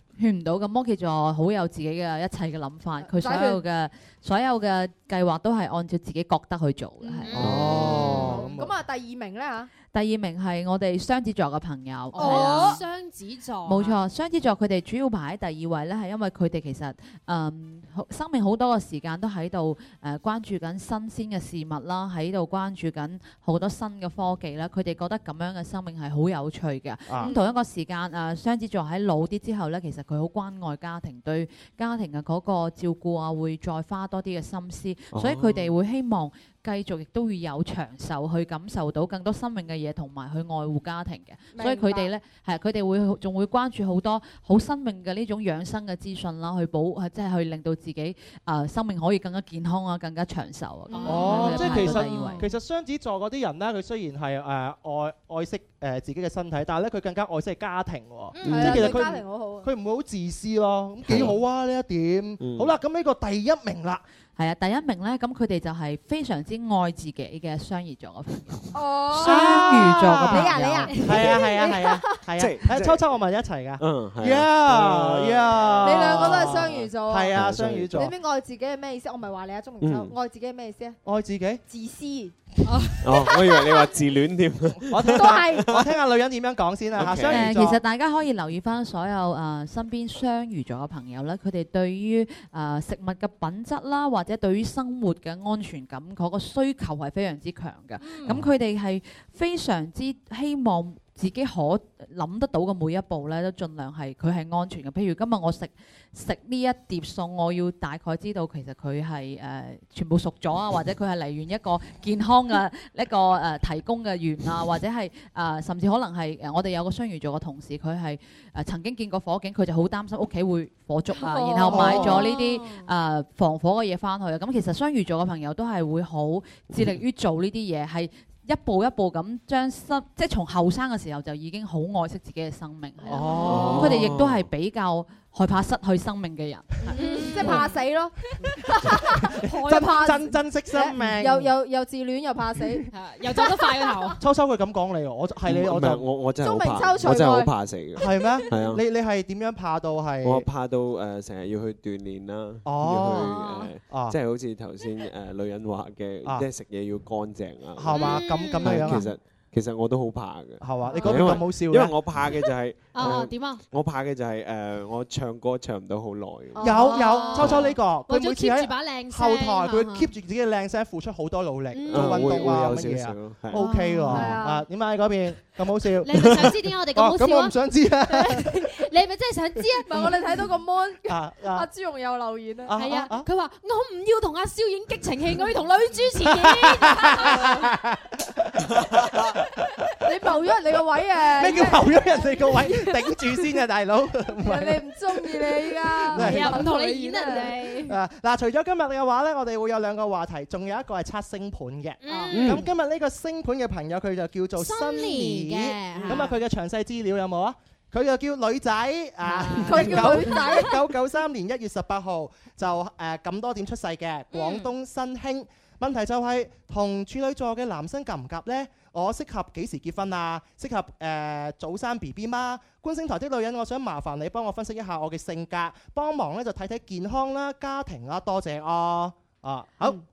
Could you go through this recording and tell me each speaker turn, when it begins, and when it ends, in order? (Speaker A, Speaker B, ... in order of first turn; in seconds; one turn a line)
Speaker A: 0.2-7.4
Speaker B: 3.0-3.6
Speaker C: 7.2-8.2
Speaker D: 7.4-8.8
Speaker B: 7.4-9.7
Speaker A: 9.9-12.8
Speaker C: 12.1-14.0
Speaker B: 12.2-12.8
Speaker A: 13.7-52.4
Speaker D: 27.1-27.3
Speaker E: 35.1-35.6
Speaker B: 41.5-42.1
Speaker C: 50.9-52.4
Speaker B: 50.9-52.4
Speaker D: 51.1-64.0
Speaker C: 58.4-59.1
Speaker B: 58.4-59.7
Speaker E: 61.1-61.4
Speaker E: 62.4-62.7
Speaker A: 64.4-71.0
Speaker B: 68.7-72.2
Speaker D: 69.2-78.1
Speaker E: 72.4-73.0
Speaker E: 73.8-76.6
Speaker B: 75.8-77.3
Speaker E: 77.3-78.0
Speaker B: 77.9-81.0
Speaker E: 79.8-80.2
Speaker D: 81.0-81.6
Speaker B: 81.7-82.3
Speaker C: 82.7-83.0
Speaker E: 83.0-85.9
Speaker B: 83.3-83.9
Speaker D: 84.9-87.8
Speaker B: 85.1-85.7
Speaker E: 87.0-87.5
Speaker A: 87.3-136.7
Speaker C: 98.0-98.3
Speaker B: 121.2-122.3
Speaker D: 121.7-122.2
Speaker C: 122.0-122.9
Speaker C: 133.0-133.6
Speaker D: 133.0-134.0
Speaker B: 133.2-133.6
Speaker E: 133.5-134.5
Speaker B: 136.9-142.9
Speaker C: 136.9-137.8
Speaker D: 139.2-141.5
Speaker C: 139.5-139.8
Speaker D: 142.6-142.9
Speaker C: 142.9-144.1
Speaker D: 144.2-146.1
Speaker E: 145.5-148.8
Speaker B: 146.4-148.4
Speaker D: 148.0-150.5
Speaker E: 150.2-166.7
Speaker D: 152.6-153.3
Speaker C: 153.2-153.7
Speaker D: 153.9-154.2
Speaker D: 157.8-159.0
Speaker C: 157.9-159.1
Speaker D: 160.6-162.0
Speaker B: 160.9-161.3
Speaker C: 160.9-161.2
Speaker C: 162.9-163.6
Speaker B: 166.6-167.4
Speaker D: 166.6-178.8
Speaker C: 166.7-170.1
Speaker E: 167.4-167.7
Speaker C: 171.7-172.6
Speaker E: 171.9-173.6
Speaker C: 173.6-174.2
Speaker B: 174.1-174.7
Speaker C: 176.0-177.6
Speaker C: 178.1-180.1
Speaker B: 179.8-182.8
Speaker D: 179.9-180.2
Speaker D: 181.1-181.7
Speaker D: 182.7-183.3
Speaker C: 182.8-187.7
Speaker D: 186.3-189.5
Speaker B: 190.0-193.2
Speaker D: 191.4-196.7
Speaker B: 194.4-197.7
Speaker C: 196.1-198.0
Speaker D: 197.8-230.0
Speaker C: 202.0-202.6
Speaker B: 202.1-202.4
Speaker E: 202.3-202.6
Speaker C: 204.6-206.3
Speaker C: 209.2-210.2
Speaker B: 209.7-210.8
Speaker C: 214.3-214.7